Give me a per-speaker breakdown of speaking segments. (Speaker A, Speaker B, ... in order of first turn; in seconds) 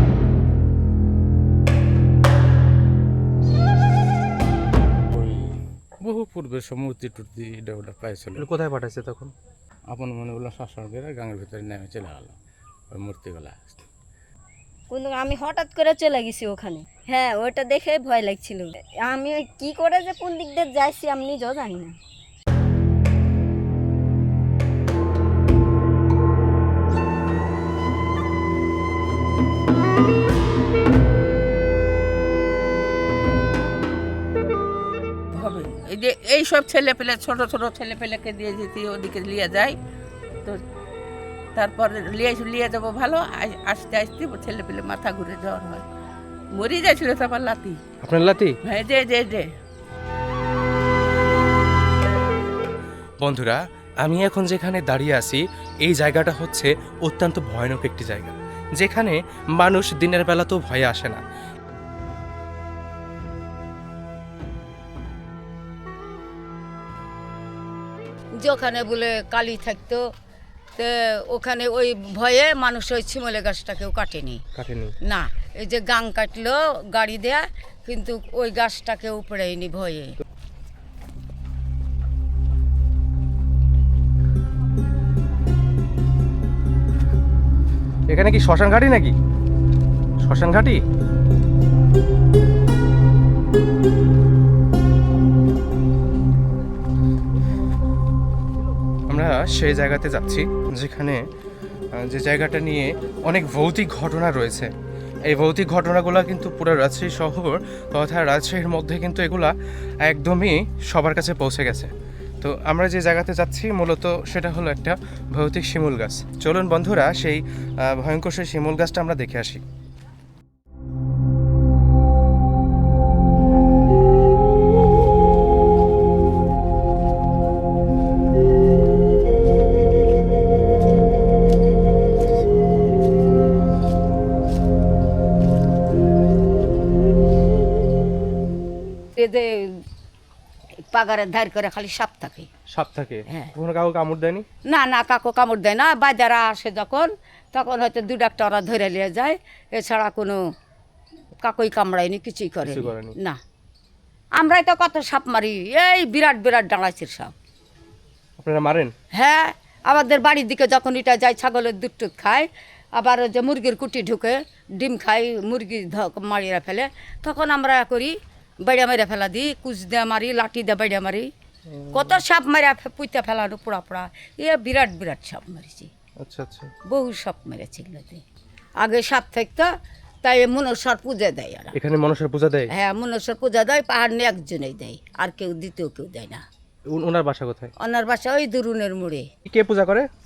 Speaker A: 5.1-8.5, 9.9-12.3, 12.9-13.8
Speaker B: 8.4-9.3, 48.0-48.5, 53.2-61.2, 74.5-74.9, 88.1-89.1, 90.2-90.8, 99.1-101.2, 102.0-104.7, 105.3-109.5, 110.0-111.9, 112.4-119.6, 142.7-144.4, 152.6-153.1, 158.4-158.9, 171.8-172.1, 176.2-176.7, 181.7-182.7, 186.9-187.7, 189.4-190.1
Speaker C: 14.9-21.9
Speaker D: 35.3-39.8, 41.5-45.8, 46.5-47.8, 48.6-49.5
Speaker E: 68.4-70.0, 70.8-74.4, 75.0-80.2, 139.2-139.8, 140.8-142.5, 144.7-150.4, 151.4-153.4, 154.3-157.3, 159.1-171.3, 171.9-175.9, 176.9-178.2, 178.8-179.7, 180.2-181.7, 182.7-186.4, 187.8-189.3